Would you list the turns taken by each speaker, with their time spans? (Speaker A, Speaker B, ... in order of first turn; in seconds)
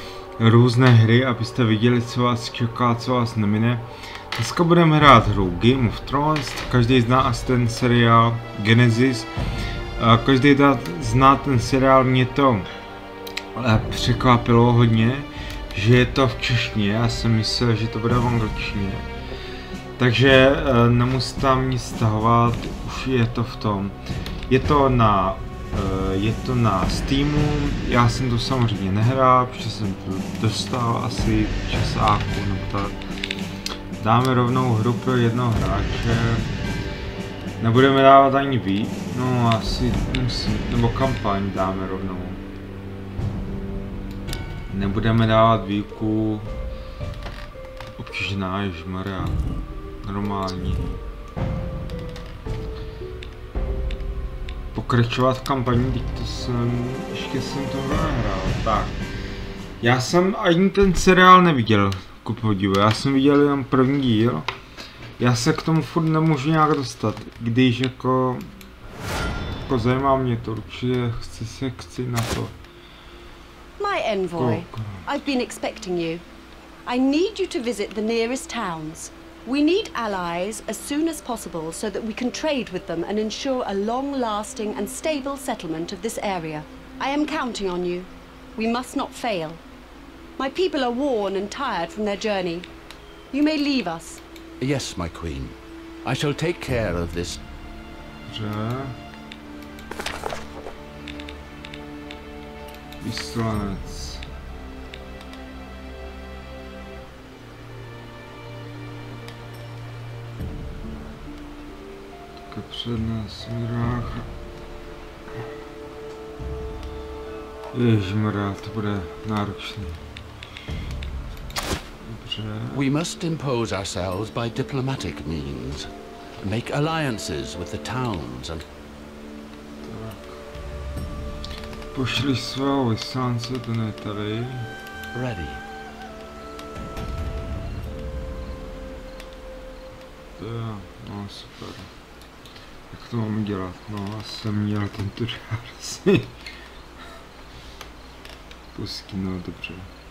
Speaker A: 0.4-9.3, 10.0-12.7, 13.5-19.1, 20.0-24.0, 24.5-33.0, 34.0-36.5, 37.6-42.4, 44.7-46.5, 48.0-49.4, 50.0-50.9, 54.7-59.0, 59.8-64.5, 65.2-68.6, 69.7-72.5, 74.3-75.0, 98.3-99.0, 103.0-104.2, 112.5-114.3, 117.7-120.0, 122.0-122.9, 129.8-130.4, 131.9-134.7, 140.4-141.9, 142.9-146.3, 148.7-149.9
Speaker B: 73.8-76.2, 76.8-89.6, 90.4-92.7, 93.3-94.2
Speaker C: 94.6-97.4, 122.7-128.6, 135.1-135.6